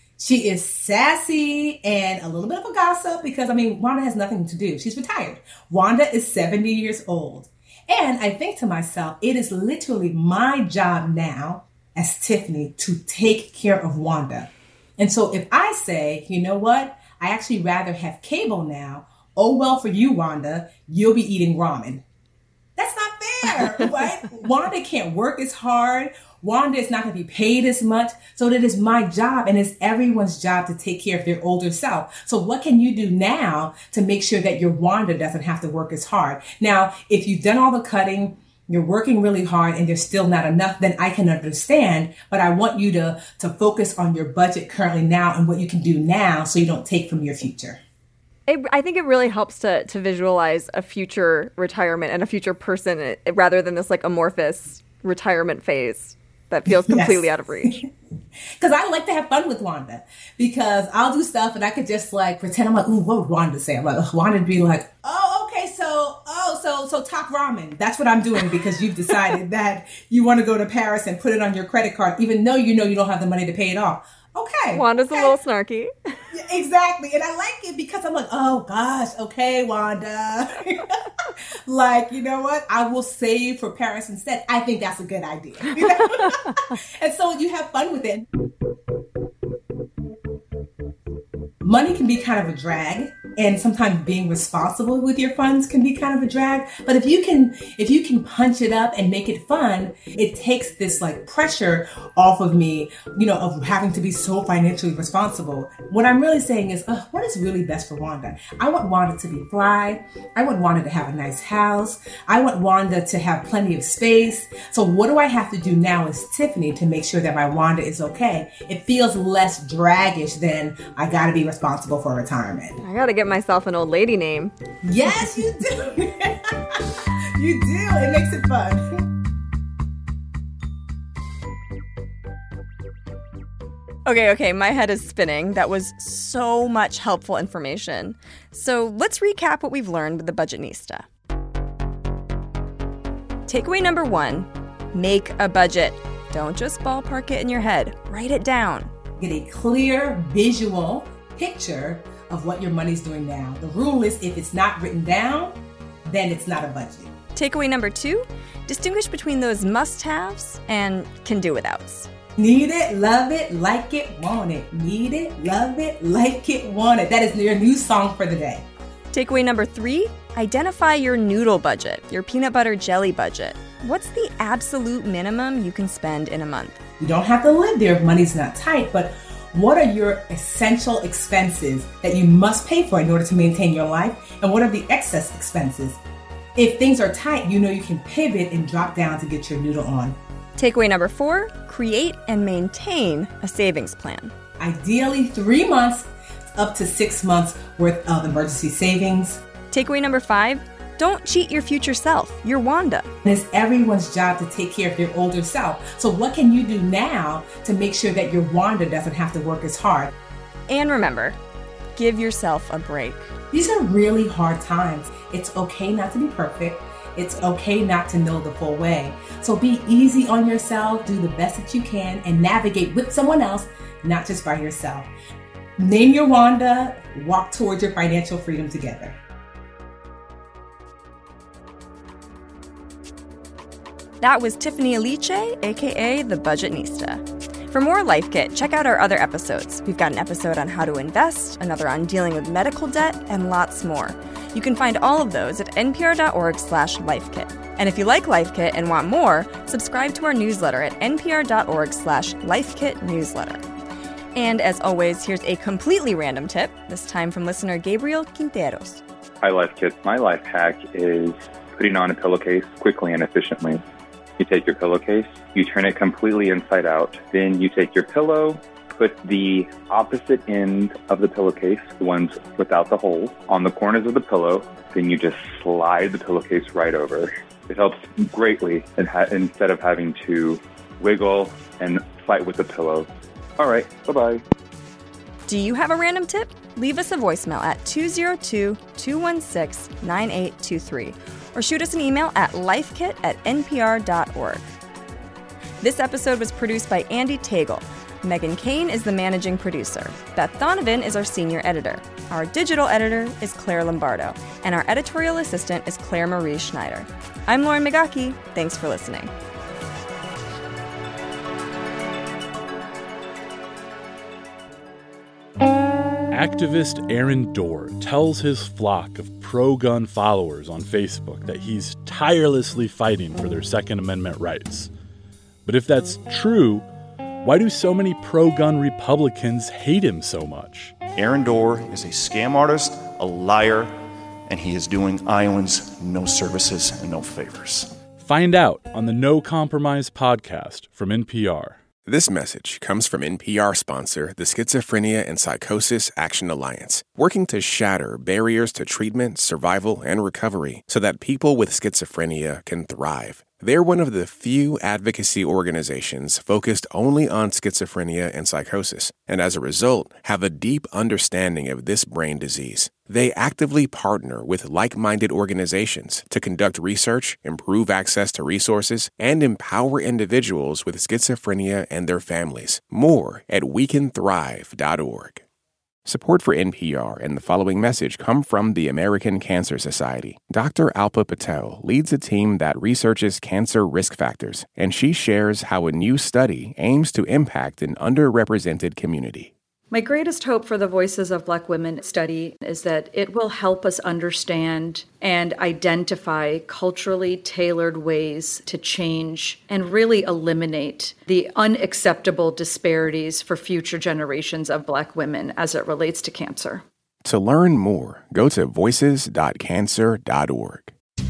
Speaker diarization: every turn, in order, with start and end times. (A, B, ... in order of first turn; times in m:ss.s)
0:00.2-0:22.0 A
0:22.8-0:47.8 A
0:48.5-0:57.8 B
0:56.7-0:57.9 A
0:58.6-1:15.4 A
1:14.7-1:16.2 B
1:16.3-1:28.3 A
1:31.6-2:02.8 A
2:02.8-2:04.5 B
2:04.8-2:09.0 A
2:14.0-2:21.0 B
2:23.5-2:28.9 B
2:29.2-2:37.1 A
2:37.3-2:42.1 B
2:42.4-2:48.6 A
2:49.1-2:56.8 B
2:57.0-3:06.0 A
3:06.6-3:10.2 A
3:10.6-3:14.3 B
3:14.6-3:19.4 A
3:19.7-3:23.1 B
3:23.2-3:30.1 A
3:30.7-3:31.4 B
3:32.0-3:33.3 B
3:33.5-3:45.1 A
3:45.8-3:49.2 A
3:54.2-4:13.6 B
4:14.3-4:19.0 B
4:19.4-4:23.8 C
4:24.4-4:44.4 C
4:45.5-4:54.7 B
4:55.8-5:09.3 B
5:16.3-5:24.9 D
5:25.6-5:26.8 D
5:27.4-5:31.0 D
5:31.1-5:34.0 E
5:34.5-5:38.0 E
5:38.2-5:41.8 D
5:42.1-6:15.4 F
6:16.0-6:29.5 F
6:29.9-6:46.8 G
6:47.2-6:50.9 F